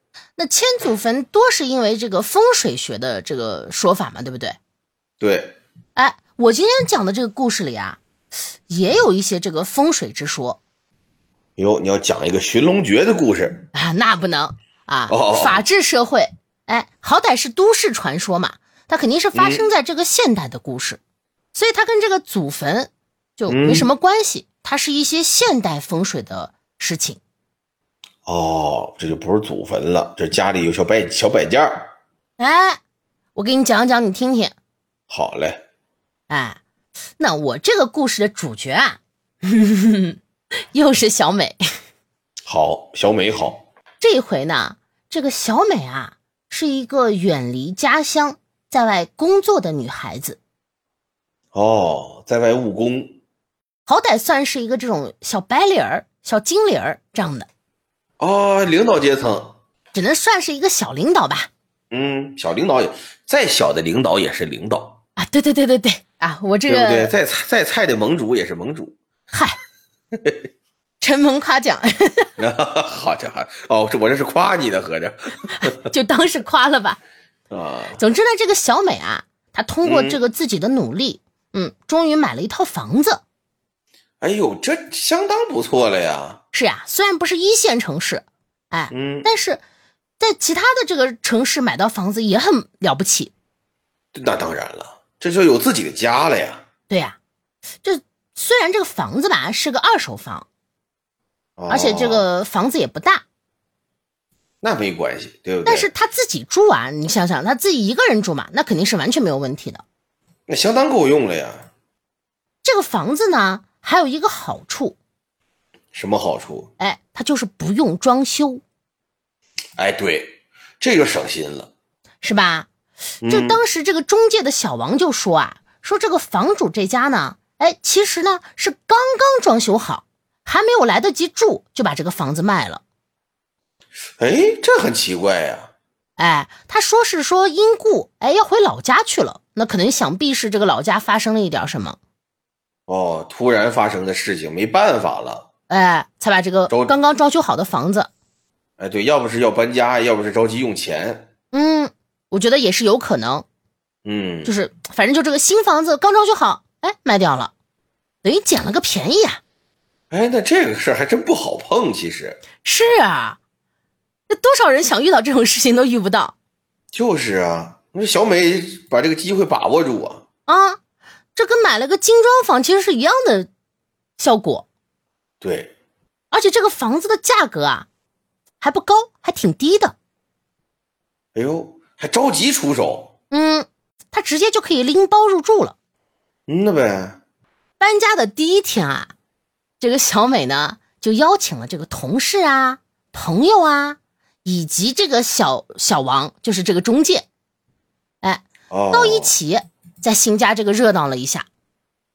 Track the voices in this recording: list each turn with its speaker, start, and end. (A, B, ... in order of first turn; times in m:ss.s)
0:00.4-0:04.6 A
0:05.2-0:05.6 B
0:06.0-0:08.0 A
0:08.7-0:10.6 A
0:11.6-0:13.7 B
0:13.7-0:21.0 A
0:15.1-0:15.6 B
0:19.3-0:19.6 B
0:21.5-0:27.2 A
0:23.5-0:23.9 B
0:28.3-0:31.9 B
0:32.4-0:32.8 A
0:33.4-0:34.6 A
0:35.1-0:35.6 B
0:36.3-0:36.6 A
0:37.2-0:40.2 A
0:40.7-0:41.6 A
0:42.5-0:43.6 B
0:44.0-0:50.4 A
0:51.5-0:53.2 B
0:53.9-0:57.5 A
0:58.2-0:59.6 B
0:59.9-1:01.5 A
1:01.9-1:05.0 B
1:05.2-1:07.1 A
1:06.7-1:09.0 B
1:09.3-1:09.6 A
1:10.1-1:10.4 B
1:11.0-1:12.3 A
1:12.4-1:15.7 B
1:15.6-1:17.0 A
1:17.5-1:18.0 B
1:18.0-1:23.2 A
1:19.8-1:20.2 B
1:24.2-1:26.4 B
1:26.5-1:29.6 A
1:28.9-1:29.3 B
1:30.2-1:33.3 A
1:34.1-1:36.6 B
1:36.9-1:37.2 A
1:37.8-1:40.5 A
1:41.6-1:42.2 B
1:41.7-1:43.2 A
1:44.6-1:45.9 B
1:45.6-1:49.8 A
1:50.5-1:51.7 B
1:52.6-1:55.0 A
1:55.9-1:56.7 B
1:56.8-1:58.6 A
1:59.8-2:01.7 B
2:02.2-2:02.7 A
2:03.2-2:03.6 B
2:03.3-2:12.8 A
2:14.2-2:15.7 B
2:16.2-2:22.0 A
2:22.9-2:25.5 B
2:25.7-2:28.1 A
2:26.7-2:26.9 B
2:28.8-2:31.3 B
2:31.5-2:33.4 A
2:34.0-2:34.5 B
2:34.4-2:37.5 A
2:38.2-2:39.4 A
2:40.1-2:42.4 B
2:42.6-2:43.4 A
2:44.3-2:46.4 A
2:46.9-2:50.2 B
2:50.5-2:50.8 A
2:51.4-2:53.5 A
2:54.2-2:54.6 A
2:55.4-2:55.7 B
2:56.3-2:57.9 A
2:58.6-3:00.0 A
3:01.4-3:03.1 B
3:03.3-3:05.8 A
3:06.5-3:07.2 B
3:07.8-3:09.1 A
3:09.8-3:17.3 A
3:18.2-3:21.5 A
3:18.7-3:19.3 B